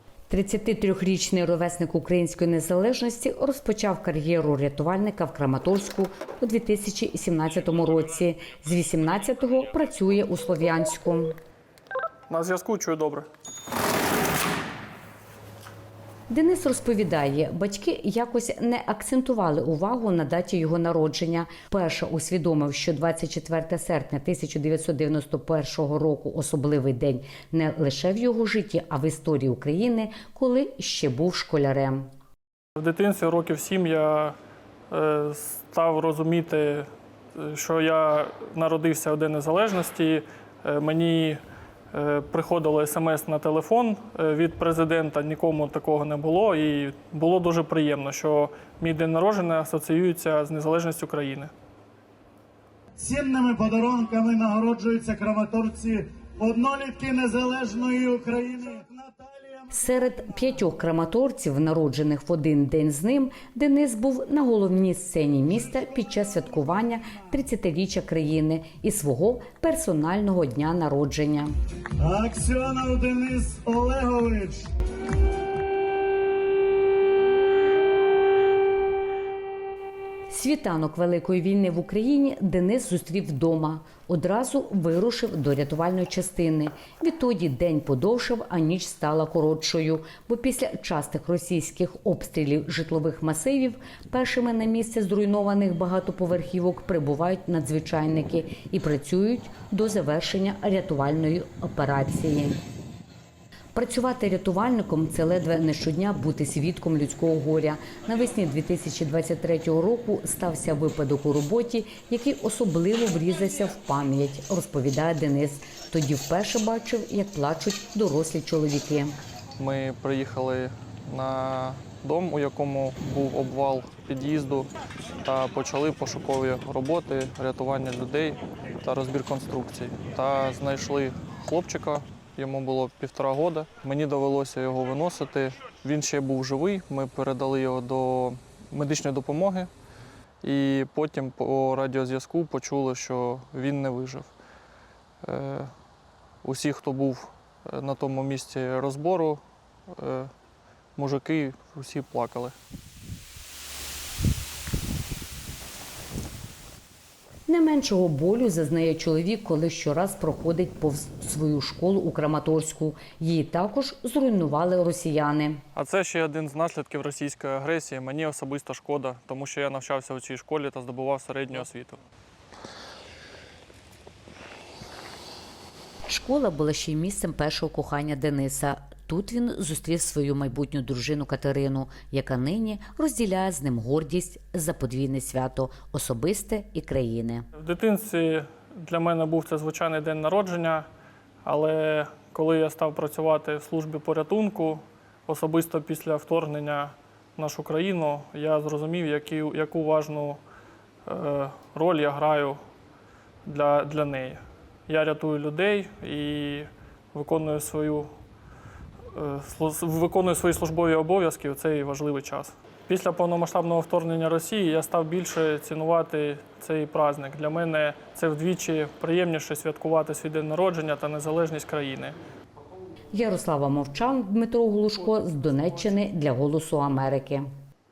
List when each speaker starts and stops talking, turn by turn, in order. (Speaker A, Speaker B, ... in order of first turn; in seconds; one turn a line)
Speaker A: 0.3-11.3
Speaker B: 12.3-13.2
Speaker A: 16.3-32.1
Speaker B: 32.8-34.4
Speaker B: 34.9-41.4
Speaker B: 41.9-51.5
Speaker C: 53.0-59.7
Speaker A: 59.7-71.5
Speaker C: 72.0-74.7
Speaker A: 80.3-102.6
Speaker A: 103.7-119.2
Speaker B: 119.6-124.7
Speaker B: 125.2-139.7
Speaker B: 140.4-144.3
Speaker B: 145.2-145.7
Speaker B: 146.4-150.3
Speaker B: 150.9-152.5
Speaker A: 157.5-165.6
Speaker B: 165.7-172.0
Speaker A: 176.1-187.4
Speaker B: 187.5-190.9
Speaker B: 191.4-200.4
Speaker B: 201.0-202.6
Speaker B: 203.4-208.1
Speaker B: 209.1-222.2
Speaker A: 223.1-227.4
Speaker B: 224.9-226.0